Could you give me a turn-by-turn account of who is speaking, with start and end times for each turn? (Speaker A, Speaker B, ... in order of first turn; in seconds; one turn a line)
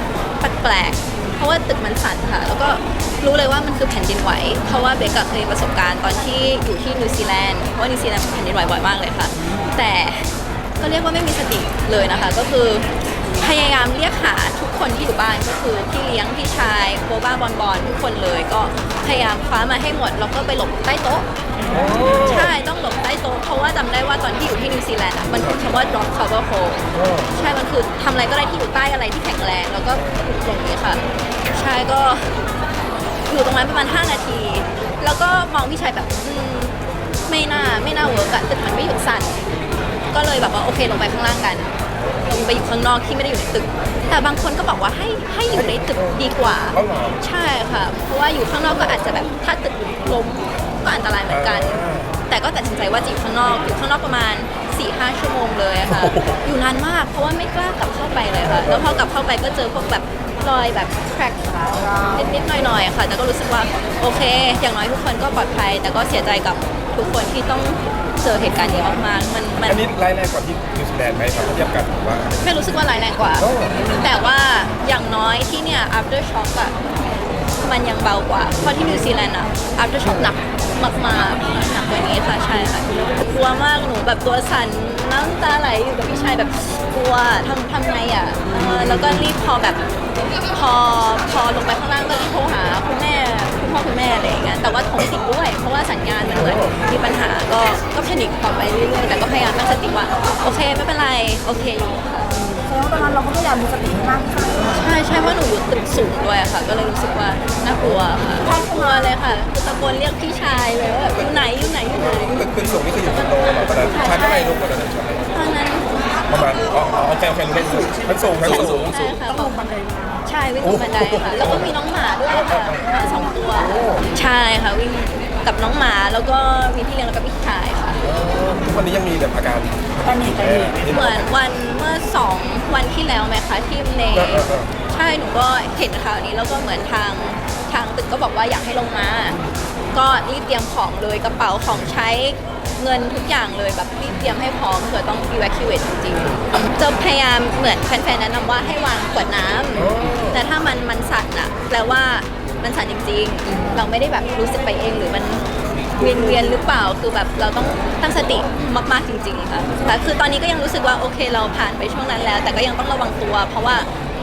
Speaker A: 0.4-21.2
Speaker B: 21.7-22.5
Speaker A: 22.2-32.4
Speaker B: 26.9-27.3
Speaker A: 33.2-39.4
Speaker A: 40.1-41.7
Speaker A: 42.2-69.8
Speaker B: 45.5-46.2
Speaker B: 46.7-47.2
Speaker B: 51.3-52.1
Speaker B: 55.9-56.4
Speaker B: 69.7-72.4
Speaker A: 72.4-76.8
Speaker B: 73.4-73.8
Speaker A: 77.6-89.8
Speaker A: 90.5-102.3
Speaker C: 102.3-104.8
Speaker A: 104.7-112.5
Speaker B: 111.9-115.3
Speaker A: 113.9-114.5
Speaker A: 115.3-116.0
Speaker B: 116.3-119.2
Speaker A: 118.8-119.7
Speaker C: 119.5-120.2
Speaker A: 120.2-128.0
Speaker B: 120.6-121.5
Speaker B: 128.0-131.1
Speaker C: 130.0-130.7
Speaker A: 130.9-139.4
Speaker B: 134.1-134.7
Speaker A: 139.9-163.9
Speaker B: 149.9-150.3